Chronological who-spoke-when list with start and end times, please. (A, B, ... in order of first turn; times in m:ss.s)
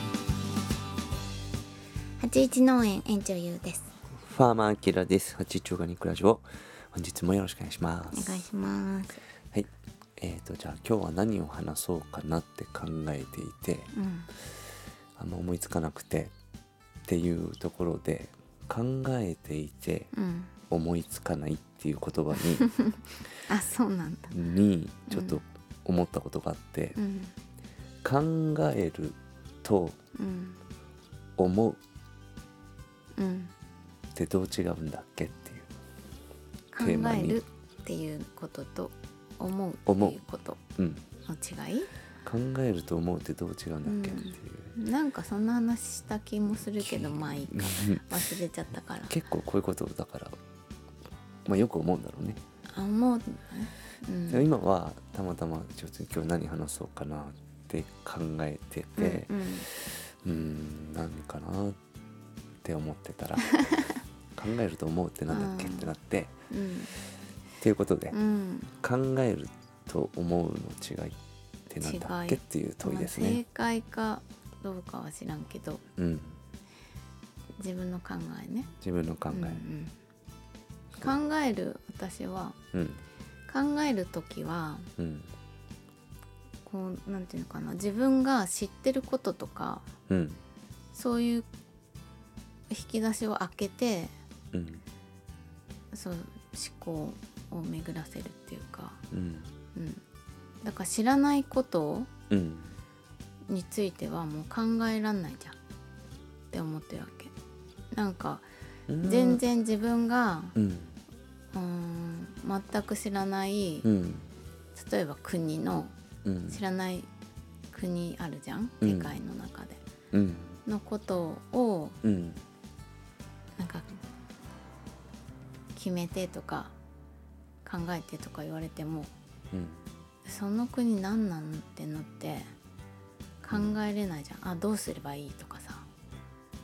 0:02.2-0:03.9 A
0:04.1-0:08.5 B
0:08.1-0:09.2 A
0:09.5-0:13.9 B
0:13.9-0:14.3 A
0:15.2-0:16.3 B
0:17.1-0:20.1 B
0:20.1-0:20.5 A
0:20.7-0:22.7 B
0:22.6-0:22.9 A
0:23.4-0:24.4 A
0:24.3-0:27.0 B
0:25.1-0:25.4 A
0:27.0-0:27.3 A
0:28.0-0:30.0 B
0:30.2-0:30.6 A
0:31.4-0:31.8 B
0:33.2-0:33.5 A
0:34.1-0:35.7 B
0:36.7-0:40.6 A
0:36.8-0:37.4 B
0:39.9-0:40.2 B
0:40.8-0:41.1 B
0:41.2-0:41.9 A
0:42.2-0:44.7 B
0:43.8-0:49.2 A
0:46.8-0:48.2 B
0:49.1-0:50.4 B
0:51.4-0:52.4 B
0:52.7-0:54.5 A
0:54.3-1:01.8 B
0:59.0-0:59.7 A
1:02.6-1:03.6 B
1:04.4-1:06.3 B
1:05.3-1:05.9 A
1:06.5-1:07.0 A
1:07.6-1:08.2 B
1:08.1-1:08.7 A
1:08.8-1:11.2 B
1:11.7-1:13.4 B
1:11.8-1:15.8 A
1:16.0-1:16.4 B
1:17.6-1:18.7 A
1:18.8-1:19.6 B
1:19.3-1:20.0 A
1:21.0-1:22.6 A
1:22.7-1:23.0 B
1:23.5-1:24.9 A
1:25.0-1:25.3 B
1:26.6-1:29.9 A
1:30.1-1:30.4 B
1:30.9-1:31.5 A
1:32.7-1:34.1 A
1:34.5-1:34.8 B
1:35.9-1:39.0 A
1:39.1-1:39.5 B
1:39.7-1:40.0 A
1:40.6-1:42.1 A
1:42.3-1:42.8 B
1:43.5-1:45.6 A
1:46.5-1:47.3 A
1:47.9-1:48.5 A
1:48.9-1:49.4 B
1:49.0-1:50.6 A
1:50.6-1:51.0 B
1:51.5-1:53.9 A
1:53.8-1:54.3 B
1:54.8-1:55.9 A
1:56.2-1:56.6 B
1:56.5-1:57.1 A
1:57.7-1:59.8 A
1:58.8-1:59.2 B
2:00.1-2:00.6 B
2:00.7-2:02.0 A
2:02.0-2:02.4 B
2:03.6-2:03.9 A
2:05.8-2:06.8 A
2:07.6-2:09.1 A
2:09.5-2:09.8 B
2:10.2-2:12.5 A
2:13.4-2:15.9 A
2:13.5-2:13.8 B